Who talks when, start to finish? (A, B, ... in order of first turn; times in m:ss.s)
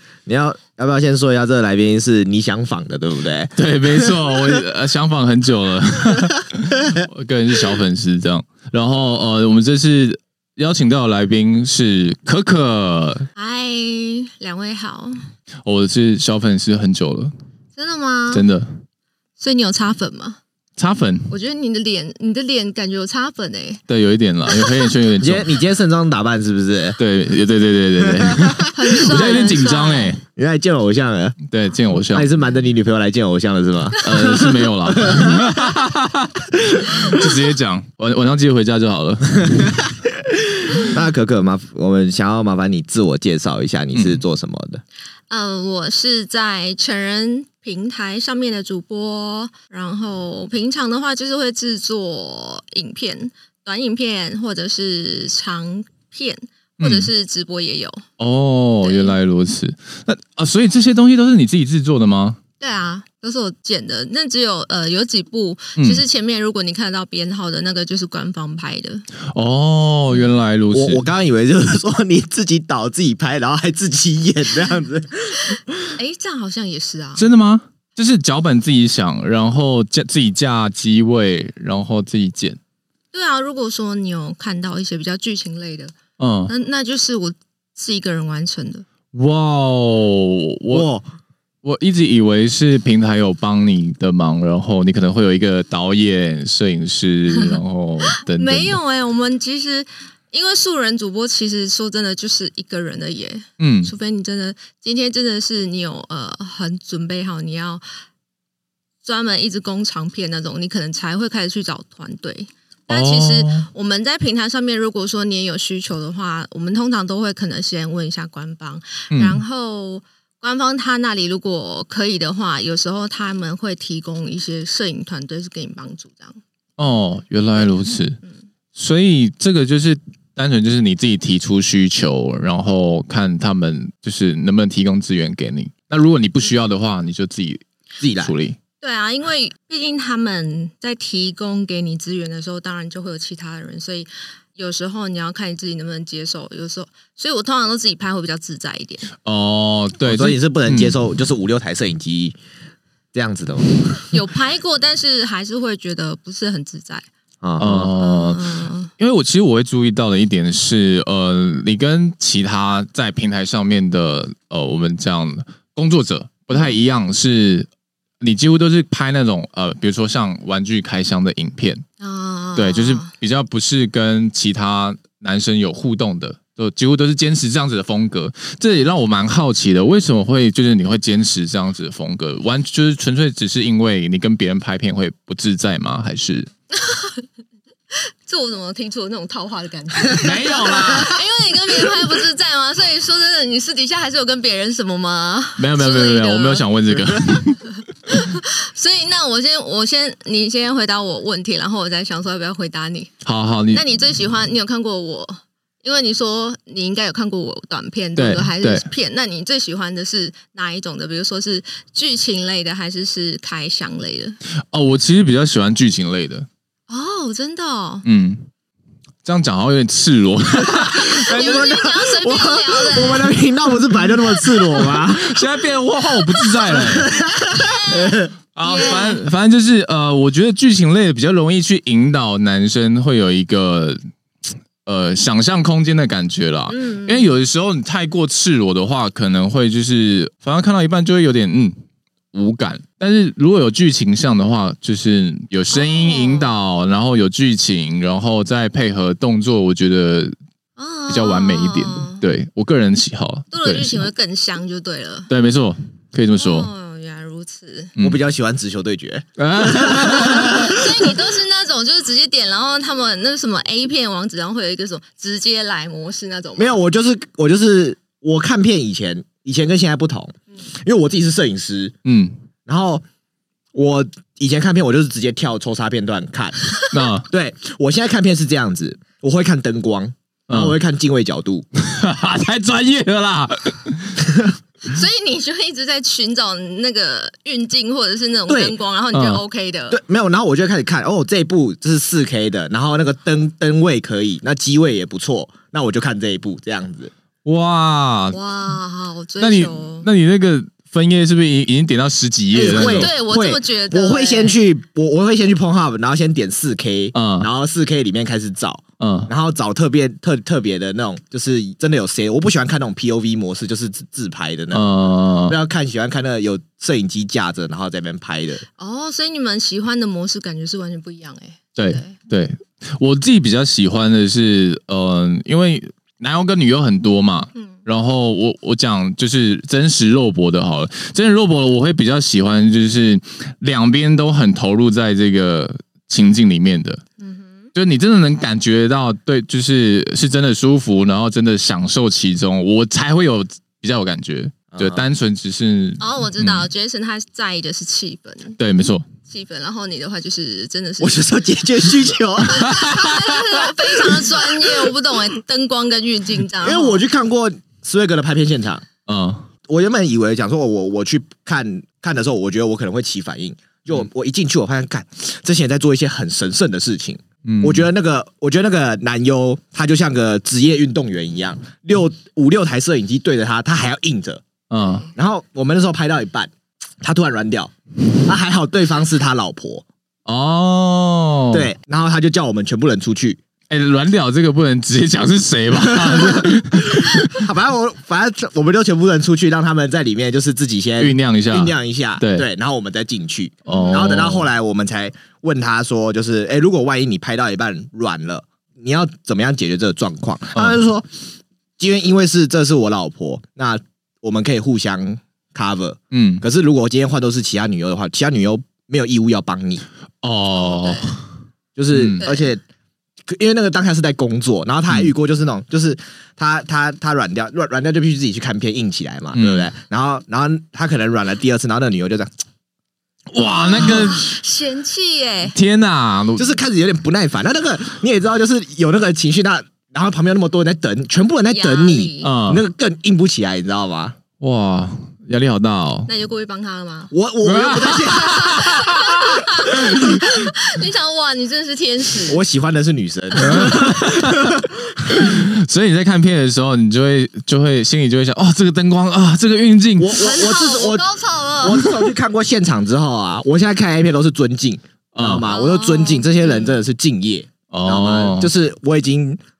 0:00.2-0:04.6 A
0:03.6-0:13.3 B
0:13.4-0:15.2 C
0:15.6-0:17.3 B
0:17.8-0:18.4 C
0:18.3-0:18.7 B
0:19.4-0:20.4 C
0:20.8-0:21.3 B
0:21.3-0:23.8 C
0:23.9-0:25.5 B
0:24.5-0:24.9 C
0:25.2-0:27.0 A
0:27.0-0:30.2 B
0:28.0-0:29.5 A
0:28.7-0:30.2 C
0:30.4-0:31.4 A
0:31.5-0:32.3 B
0:32.1-0:35.5 A
0:34.0-0:39.9 B
0:39.6-0:39.9 A
0:40.5-0:44.8 A
0:43.9-0:44.2 B
0:45.3-0:58.0 C
0:56.8-0:57.1 B
0:58.2-1:02.4 B
0:58.8-0:59.1 C
1:02.6-1:09.0 C
1:09.3-1:11.0 B
1:10.1-1:15.9 A
1:15.4-1:17.3 C
1:17.2-1:22.6 B
1:23.1-1:25.9 C
1:26.2-1:26.5 B
1:26.5-1:28.8 C
1:29.1-1:30.9 B
1:30.7-1:31.0 A
1:31.6-1:38.8 B
1:37.3-1:47.8 C
1:43.6-1:43.9 B
1:49.0-2:06.4 C
1:52.9-1:53.7 B
1:59.1-1:59.4 B
2:06.8-2:08.2 B
2:07.6-2:08.4 C
2:08.8-2:17.6 B
2:18.0-2:18.3 A
2:18.2-2:18.6 B
2:18.8-2:29.1 C
2:29.2-2:31.0 B
2:30.0-2:32.4 A
2:33.1-2:34.2 A
2:34.1-2:37.0 C
2:37.4-2:37.9 A
2:37.6-2:47.7 B
2:37.9-2:38.9 C
2:48.2-2:51.8 B
2:52.0-2:53.1 C
2:52.6-3:06.5 B
3:06.7-3:07.2 C
3:08.0-3:16.6 C
3:10.2-3:11.2 B
3:10.4-3:11.1 A
3:15.6-3:17.6 B
3:18.1-3:23.1 C
3:23.2-3:23.8 B
3:23.7-3:34.4 C
3:28.2-3:28.8 B
3:34.7-3:36.5 B
3:36.9-3:38.0 C
3:38.0-3:38.5 B
3:39.2-3:41.7 B
3:40.6-3:45.5 A
3:41.0-3:43.4 C
3:44.8-3:47.1 B
3:46.6-3:48.3 A
3:47.4-3:49.2 C
3:48.5-3:54.0 B
3:54.8-4:01.8 B
3:56.7-3:57.3 C
4:02.3-4:10.3 B
4:05.7-4:06.5 C
4:10.8-4:12.2 C
4:11.1-4:14.1 B
4:13.5-4:15.3 C
4:15.3-4:16.7 B
4:16.4-4:17.9 C
4:18.0-4:20.8 A
4:19.4-4:20.7 B
4:20.0-4:26.8 C
4:26.6-4:31.9 A
4:32.0-4:32.3 B
4:32.6-4:33.0 A
4:33.7-4:36.8 A
4:36.9-4:37.3 B
4:37.3-4:41.6 A
4:40.5-4:40.8 B
4:41.8-4:44.3 B
4:44.8-4:50.0 C
4:48.5-4:48.8 A
4:49.1-4:49.4 B
4:49.9-4:57.1 A
4:57.4-4:58.4 B
4:58.3-5:00.1 C
4:59.4-5:03.1 B
5:02.5-5:04.6 C
5:02.5-5:18.6 A
5:07.1-5:07.5 B
5:09.0-5:09.3 B
5:14.7-5:15.6 B
5:18.8-5:22.2 C
5:21.8-5:37.0 B
5:27.5-5:27.8 C
5:37.2-5:37.7 C
5:37.7-5:46.7 B
5:44.7-5:45.0 A
5:46.0-5:48.6 C
5:48.6-5:49.0 B
5:49.2-5:51.6 C
5:51.0-5:54.9 A
5:52.5-5:57.0 C
5:52.7-5:53.0 B
5:56.6-5:58.8 A
5:59.1-5:59.5 B
5:59.7-6:14.4 A
6:07.4-6:07.9 B
6:14.7-6:15.1 B
6:14.8-6:15.1 C
6:15.1-6:19.8 A
6:20.2-6:21.7 B
6:21.5-6:23.4 A
6:23.7-6:27.5 B
6:25.8-6:41.1 A
6:31.0-6:32.4 B
6:33.6-6:34.1 C
6:33.6-6:34.4 B
6:41.8-6:49.8 A
6:46.1-6:46.4 B
6:50.2-6:51.2 B
6:50.5-6:51.2 C
6:51.8-6:52.6 A
6:51.9-6:52.2 B
6:52.2-6:52.5 C
6:53.2-7:02.3 A
6:59.3-6:59.7 B
7:03.3-7:04.3 B
7:03.5-7:05.5 C
7:05.5-7:06.5 B
7:06.4-7:14.2 A
7:11.5-7:12.3 C
7:12.2-7:12.6 B
7:14.4-7:16.1 B
7:16.1-7:17.1 C
7:17.1-7:19.1 A
7:17.4-7:20.0 B
7:17.9-7:22.4 C
7:19.7-7:20.1 A
7:22.2-7:24.7 A
7:23.4-7:23.8 C
7:23.4-7:30.2 B
7:30.0-7:31.1 A
7:30.1-7:31.9 C
7:31.6-7:39.4 A
7:35.1-7:35.5 B
7:35.5-7:36.8 C
7:37.7-7:38.5 B